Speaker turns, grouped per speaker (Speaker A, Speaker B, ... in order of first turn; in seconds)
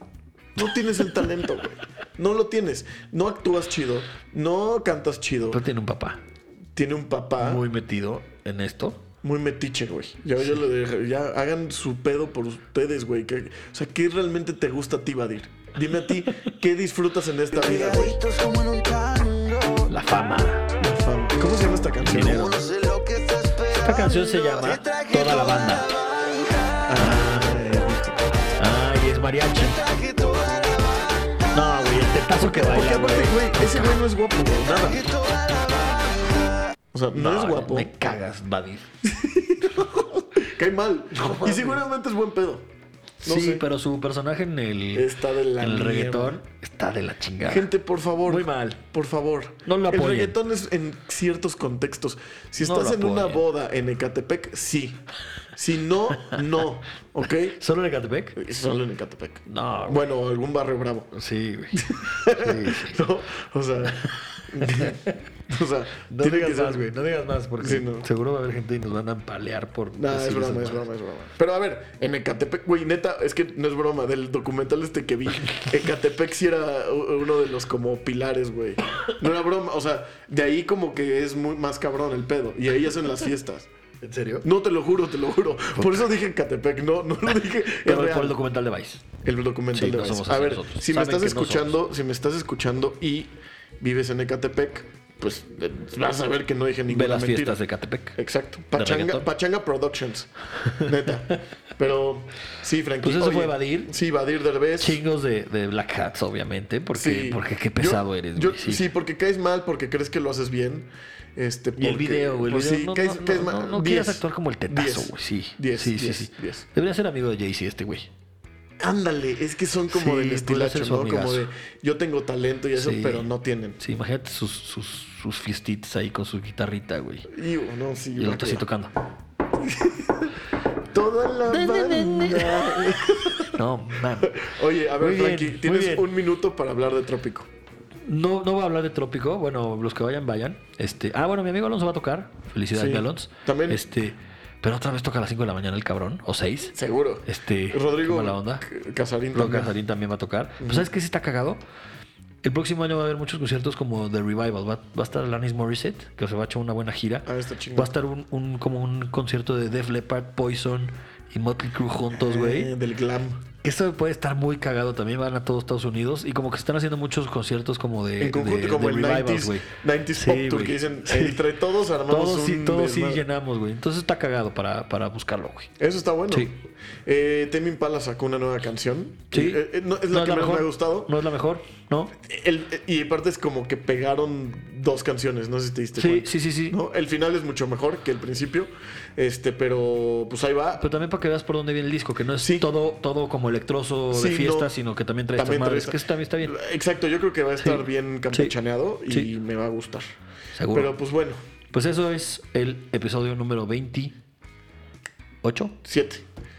Speaker A: 0.6-5.6, 6.7-7.6, 9.2-18.2, 20.8-22.6, 26.9-28.5, 32.4-35.1, 36.9-37.9, 39.0-42.7, 43.2-43.7, 44.9-46.4, 47.4-57.6, 58.4-61.1, 61.7-66.9, 67.6-68.1, 69.9-83.7, 84.4-88.4, 89.2-97.6, 98.2-100.3, 100.8-105.0, 106.9-116.7, 118.8-123.8, 127.3-128.7, 129.6-130.3, 130.9-137.5, 142.7-143.8, 146.7-149.7, 150.6-150.9, 157.2-157.9, 162.1-163.4, 168.2-173.2, 175.8-181.2, 182.2-190.9, 192.4-192.7, 194.1-194.7, 195.3-200.1, 200.7-201.4, 205.8-206.2
Speaker B: 5.5-6.2, 7.4-9.0, 19.9-20.7, 22.0-22.6, 23.7-25.9, 27.0-27.5, 28.6-29.8, 31.5-34.0, 37.1-38.9, 41.1-41.8, 43.2-47.7, 48.2-48.8, 49.6-50.4, 52.6-53.4, 57.5-58.4, 59.5-60.0, 61.1-63.0, 64.0-65.2, 66.1-70.8, 84.0-84.4, 85.8-86.0, 87.8-89.0, 89.7-91.8, 96.9-98.2, 98.7-99.2, 100.6-100.9, 103.0-103.9, 104.8-108.9, 111.8-118.1, 119.9-121.5, 122.7-127.3, 128.2-128.9, 131.5-136.1, 138.1-148.6, 149.3-151.6, 152.4-162.7, 163.6-171.4, 172.1-175.7, 179.3-182.2, 185.9-186.8, 190.8-196.6, 197.6-198.5, 200.5-200.9, 201.7-204.1, 205.4-205.8
Speaker C: 17.5-19.9, 22.1-27.0, 29.5-31.5, 34.7-36.6